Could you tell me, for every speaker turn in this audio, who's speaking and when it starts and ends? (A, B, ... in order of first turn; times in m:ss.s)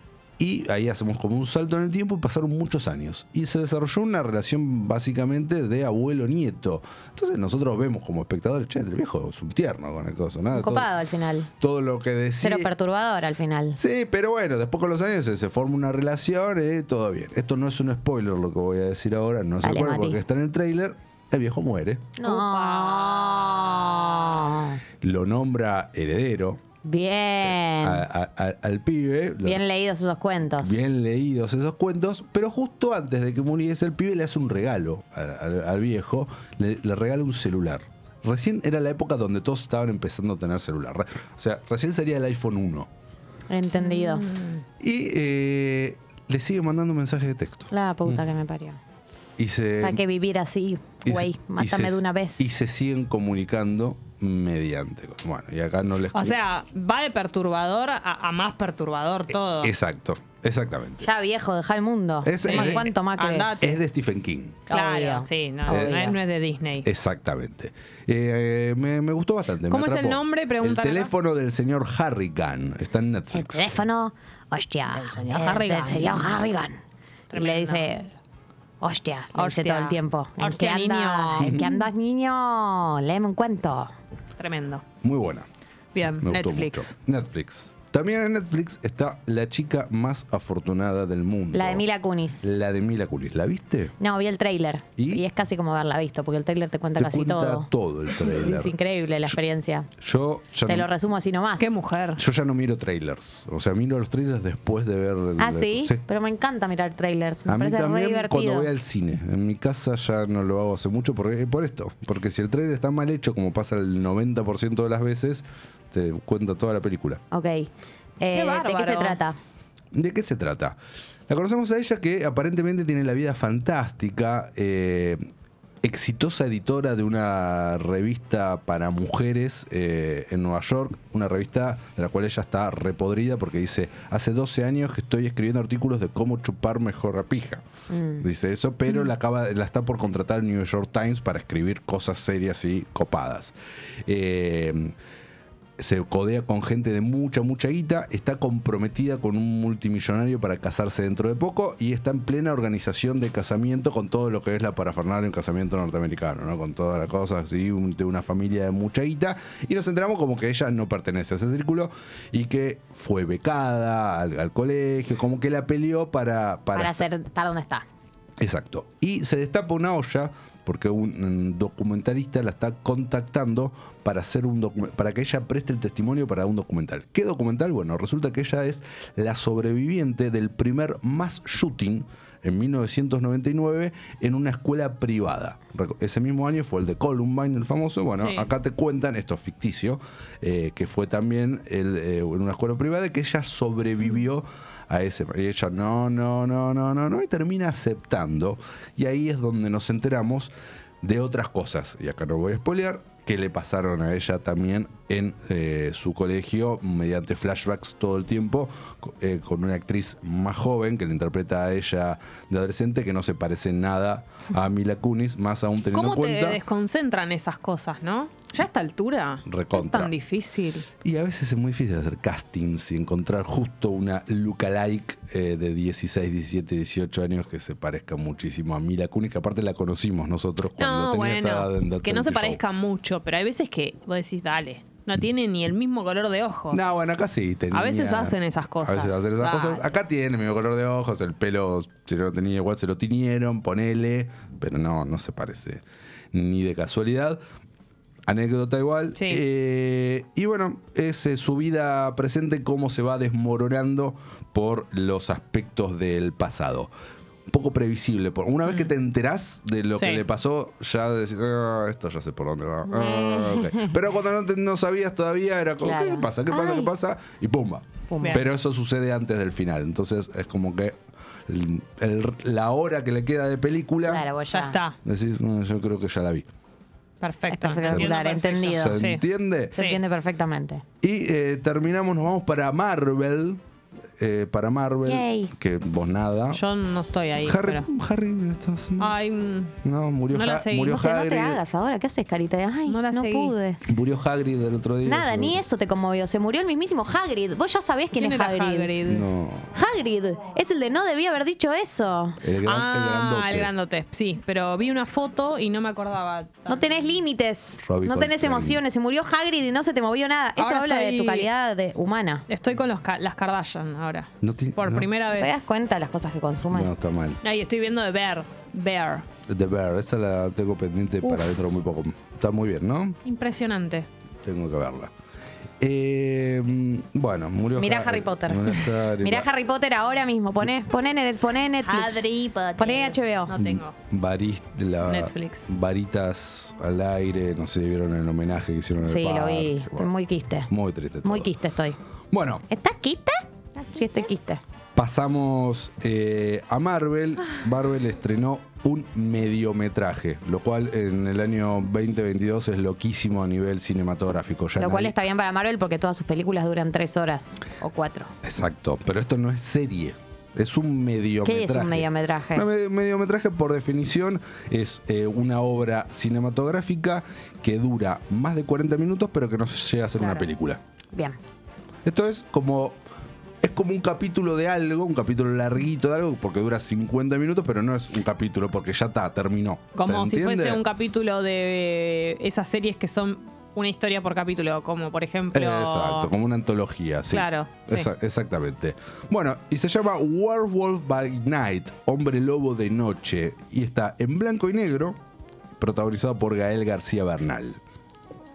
0:00.4-0:10.9 A
0:10.5-0:11.5 B
0:11.6-0:12.7 A
0:12.4-0:13.8 B
0:13.8-0:22.1 A
0:19.6-0:20.2 B
0:22.2-0:24.8 B
0:22.2-0:24.5 C
0:25.0-0:26.6 A
0:26.8-0:28.0 B
0:27.5-0:29.6 A
0:29.4-0:30.8 B
0:30.6-0:42.9 A
0:43.5-0:44.3 B
0:43.8-0:44.5 C
0:44.8-0:48.2 A
0:47.7-0:48.8 B
0:49.4-0:50.0 A
0:49.8-0:52.5 B
0:51.0-0:56.4 A
0:56.1-0:59.7 C
0:59.6-1:01.1 A
1:01.0-1:03.8 B
1:02.2-1:02.9 A
1:02.4-1:03.7 C
1:03.6-1:04.7 A
1:04.7-1:06.2 B
1:04.7-1:06.9 C
1:05.7-1:06.2 A
1:06.8-1:13.8 A
1:09.6-1:11.1 C
1:13.3-1:16.8 B
1:14.9-1:16.3 C
1:17.3-1:17.9 C
1:17.3-1:18.1 B
1:18.8-1:23.9 B
1:19.3-1:21.6 C
1:24.4-1:24.8 C
1:25.0-1:25.5 A
1:25.9-1:26.9 C
1:26.2-1:31.8 A
1:31.5-1:32.5 B
1:32.4-1:34.0 A
1:34.0-1:39.9 B
1:35.0-1:35.2 A
1:37.0-1:38.8 A
1:40.0-1:40.9 A
1:40.7-1:41.8 B
1:41.6-1:42.2 C
1:42.2-1:46.0 A
1:45.4-1:48.7 B
1:47.5-1:57.2 A
1:57.3-1:57.7 B
1:58.2-1:59.4 B
1:58.3-1:59.2 C
1:59.9-2:00.8 A
2:01.3-2:05.2 A
2:05.8-2:17.6 A
2:17.9-2:18.3 B
2:18.2-2:23.5 A
2:24.1-2:24.9 A
2:25.8-2:47.0 A
2:46.8-2:47.8 B
2:48.4-3:36.6 A
3:08.2-3:08.5 C
3:35.9-3:40.9 C
3:39.5-3:40.1 A
3:41.0-3:52.6 A
3:50.8-3:57.0 C
3:56.7-4:07.4 A
3:57.7-3:59.9 C
4:08.3-4:16.9 A
4:09.2-4:09.4 C
4:17.5-4:31.0 A
4:20.0-4:20.2 C
4:22.9-4:24.0 B
4:25.8-4:26.9 B
4:28.1-4:28.4 B
4:31.5-4:34.2 A
4:34.0-4:34.8 B
4:34.5-4:35.0 C
4:35.0-4:36.5 A
4:37.2-4:39.2 C
4:37.5-4:39.0 B
4:37.8-4:39.8 A
4:39.7-4:40.0 C
4:39.7-4:40.8 B
4:41.0-4:43.6 A
4:44.2-4:46.6 A
4:45.0-4:45.5 B
4:46.5-4:47.9 C
4:47.4-4:49.2 A
4:49.0-4:49.8 C
4:49.8-4:51.6 A
4:50.3-4:51.0 C
4:50.9-4:53.8 B
4:52.9-4:53.5 C
4:53.8-4:55.6 A
4:55.0-4:58.9 B
4:58.1-4:59.3 C
4:59.1-4:59.8 A
4:59.7-5:02.4 B
5:02.4-5:03.7 A
5:02.6-5:06.8 C
5:06.7-5:12.5 B
5:07.8-5:08.8 A
5:10.6-5:11.5 C
5:12.5-5:15.7 C
5:14.4-5:15.1 A
5:15.3-5:16.9 B
5:16.7-5:17.4 A
5:17.4-5:19.3 C
5:19.5-5:23.2 A
5:23.2-5:24.1 C
5:24.4-5:25.1 A
5:25.8-5:29.5 A
5:27.8-5:33.5 B
5:31.8-5:33.9 C
5:33.6-5:40.1 A
5:35.0-5:35.7 C
5:39.0-5:40.7 B
5:40.7-5:41.5 A
5:41.2-5:42.0 B
5:42.3-5:42.6 A
5:42.7-5:44.6 B
5:45.0-5:55.2 A
5:54.8-5:58.3 B
5:58.4-6:10.8 A
6:01.4-6:02.7 B
6:11.1-6:11.4 B
6:12.0-6:13.0 A
6:13.6-6:20.8 A
6:20.0-6:26.3 C
6:25.5-6:35.2 A
6:27.3-6:28.1 C
6:35.8-6:37.8 A